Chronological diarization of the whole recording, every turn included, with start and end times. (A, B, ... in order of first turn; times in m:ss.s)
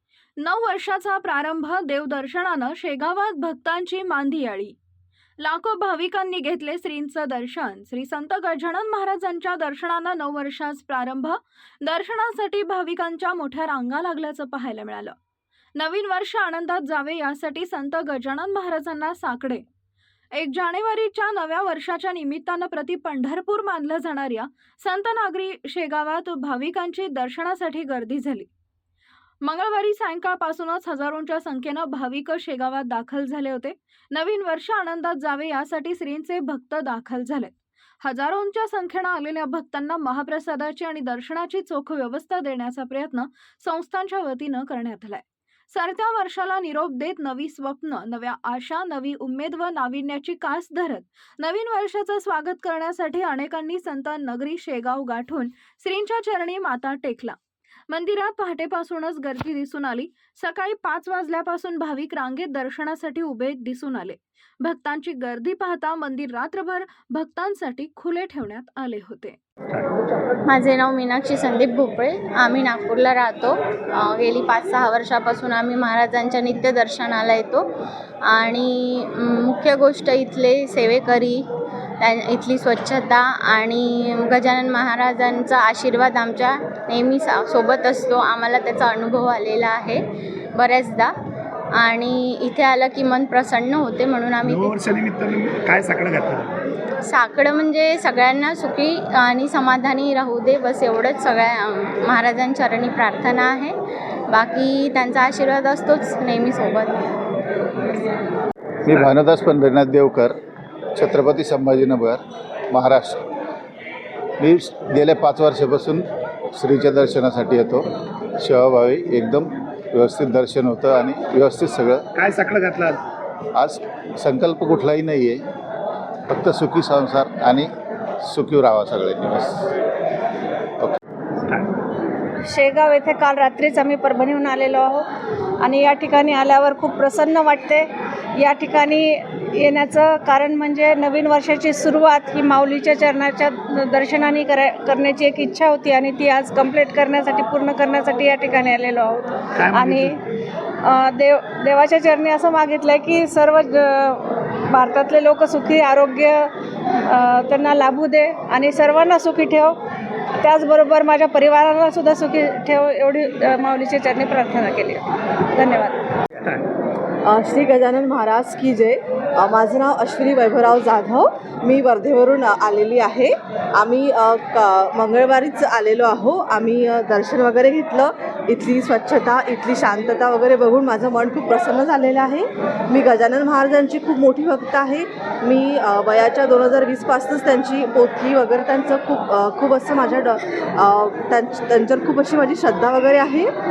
0:00.4-0:04.7 A
0:05.4-0:15.1 A
0:15.8-0:19.6 A
0:20.4-0:28.5 A
0:29.4-0:57.4 A
0:57.9-1:09.4 A
1:10.5-1:17.6 B
1:18.2-1:21.4 B
1:22.0-1:30.0 B
1:30.6-1:31.1 B
1:31.8-1:34.8 B
1:34.4-1:36.5 C
1:37.0-1:43.7 B
1:44.3-1:47.0 B
1:48.8-1:50.3 D
1:50.9-1:53.2 D
1:54.4-1:57.8 D
1:58.4-2:02.0 D
2:02.2-2:03.0 C
2:03.5-2:05.4 D
2:06.3-2:07.7 D
2:08.2-2:09.7 D
2:12.4-2:15.0 E
2:15.6-2:30.1 E
2:29.6-2:30.1 C
2:30.8-2:36.5 E
2:37.1-2:39.7 E
2:40.4-2:46.0 E
2:47.3-3:13.5 F